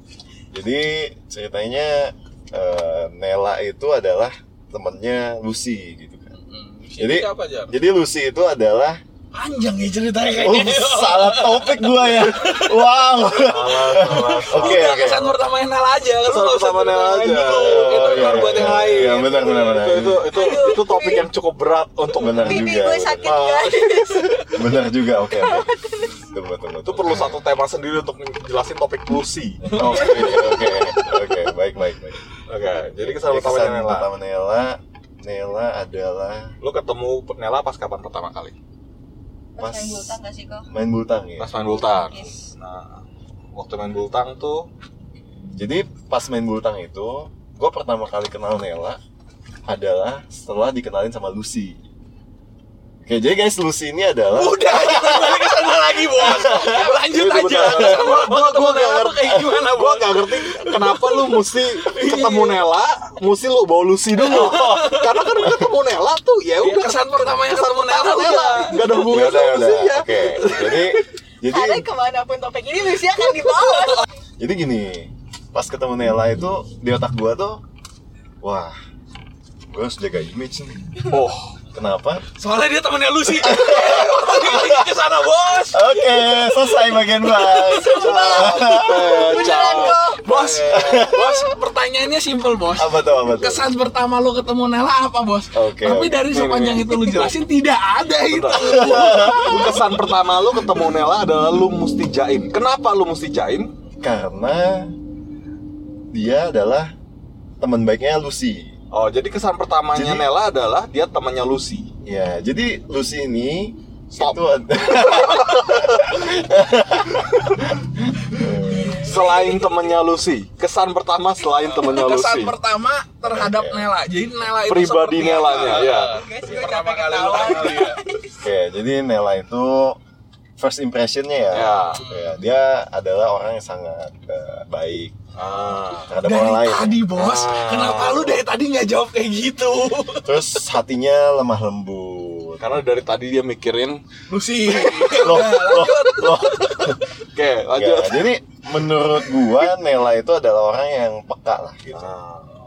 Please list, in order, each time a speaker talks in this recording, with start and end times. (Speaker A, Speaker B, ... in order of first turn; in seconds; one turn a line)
Speaker A: 0.5-6.3
Speaker B: 6.3-7.7
Speaker A: 7.0-9.0
Speaker B: 9.3-12.9
Speaker A: 10.3-15.3
Speaker C: 13.3-15.3
Speaker B: 14.0-19.9
Speaker C: 16.2-22.6
Speaker A: 17.6-20.5
Speaker D: 20.3-21.3
Speaker A: 22.1-23.4
Speaker D: 22.2-24.4
Speaker C: 23.2-24.4
Speaker A: 24.5-27.4
Speaker D: 25.3-26.2
Speaker C: 26.9-29.8
Speaker B: 29.6-30.2
Speaker A: 29.7-32.2
Speaker D: 29.9-30.6
Speaker C: 32.5-34.1
Speaker A: 33.0-36.5
Speaker C: 36.6-38.5
Speaker D: 39.6-40.7
Speaker A: 39.6-40.2
Speaker A: 40.7-41.5
Speaker C: 41.4-44.7
Speaker D: 41.7-42.5
Speaker A: 45.5-49.0
Speaker A: 49.7-51.8
Speaker A: 53.0-58.0
Speaker B: 54.3-62.7
Speaker C: 56.5-71.0
Speaker B: 64.2-65.2
Speaker A: 64.2-65.0
Speaker B: 66.6-68.8
Speaker D: 68.1-68.7
Speaker A: 68.9-71.9
Speaker D: 71.4-74.1
Speaker A: 74.4-77.6
Speaker A: 78.4-78.8
Speaker A: 79.7-81.0
Speaker C: 81.1-81.6
Speaker A: 81.7-82.2
Speaker B: 82.3-86.1
Speaker A: 83.3-84.9
Speaker A: 85.7-89.2
Speaker D: 87.7-90.3
Speaker C: 87.9-91.1
Speaker B: 89.3-99.8
Speaker A: 90.7-91.2
Speaker A: 92.7-93.7
Speaker A: 95.5-96.3
Speaker C: 96.3-97.4
Speaker C: 98.3-103.7
Speaker A: 98.5-99.7
Speaker A: 104.0-105.0
Speaker A: 106.1-106.9
Speaker A: 107.6-108.8
Speaker C: 108.9-111.9
Speaker A: 109.9-110.3
Speaker A: 112.0-117.5
Speaker C: 114.1-115.8
Speaker A: 118.4-119.0
Speaker D: 118.6-119.4
Speaker C: 118.9-122.6
Speaker B: 121.6-128.0
Speaker A: 123.2-123.9
Speaker C: 124.7-126.2
Speaker D: 126.0-128.3
Speaker A: 128.4-130.0
Speaker A: 130.6-135.2
Speaker C: 131.5-132.1
Speaker B: 131.9-132.4
Speaker C: 135.3-136.1
Speaker A: 136.1-137.1
Speaker B: 136.2-140.4
Speaker C: 137.2-138.4
Speaker A: 140.2-142.8
Speaker C: 142.6-144.0
Speaker B: 144.3-147.0
Speaker A: 145.1-147.0
Speaker C: 147.3-148.3
Speaker A: 147.7-152.2
Speaker C: 151.9-152.5